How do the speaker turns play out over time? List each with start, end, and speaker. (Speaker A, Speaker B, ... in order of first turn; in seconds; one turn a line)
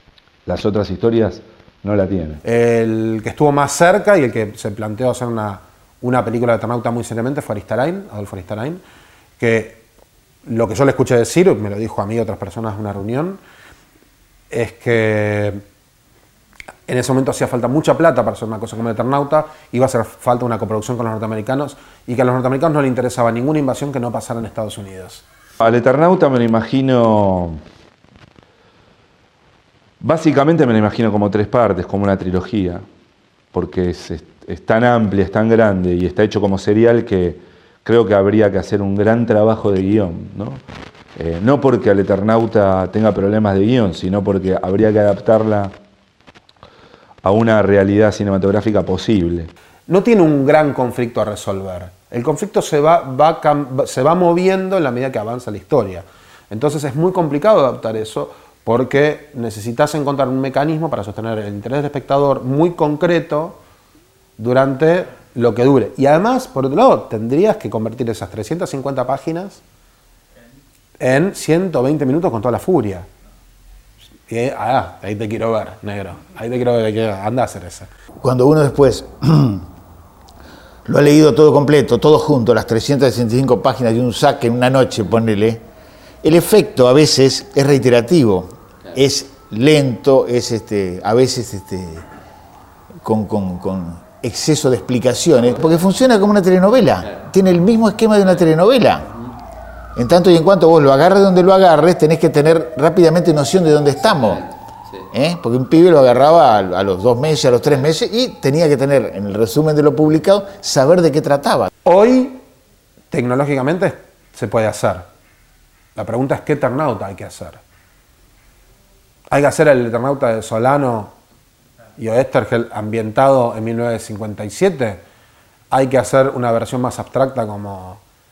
Speaker A: 0.5-2.4
Speaker B: 2.4-8.8
Speaker B: 9.4-9.8
Speaker B: 10.4-13.4
Speaker B: 14.5-15.6
Speaker B: 16.9-25.2
Speaker A: 25.6-27.6
Speaker A: 30.0-32.9
Speaker A: 33.5-40.6
Speaker A: 41.2-45.8
Speaker A: 47.2-49.5
Speaker B: 49.9-63.6
Speaker B: 64.4-69.6
Speaker B: 71.0-73.1
Speaker B: 74.3-77.9
Speaker C: 78.2-79.7
Speaker C: 80.9-85.6
Speaker C: 86.2-92.1
Speaker C: 93.0-99.1
Speaker C: 100.0-104.5
Speaker C: 105.1-111.7
Speaker B: 111.8-112.4
Speaker B: 113.1-115.1
Speaker B: 116.0-117.6
Speaker B: 119.3-121.2
Speaker B: 122.0-125.0
Speaker B: 125.7-128.0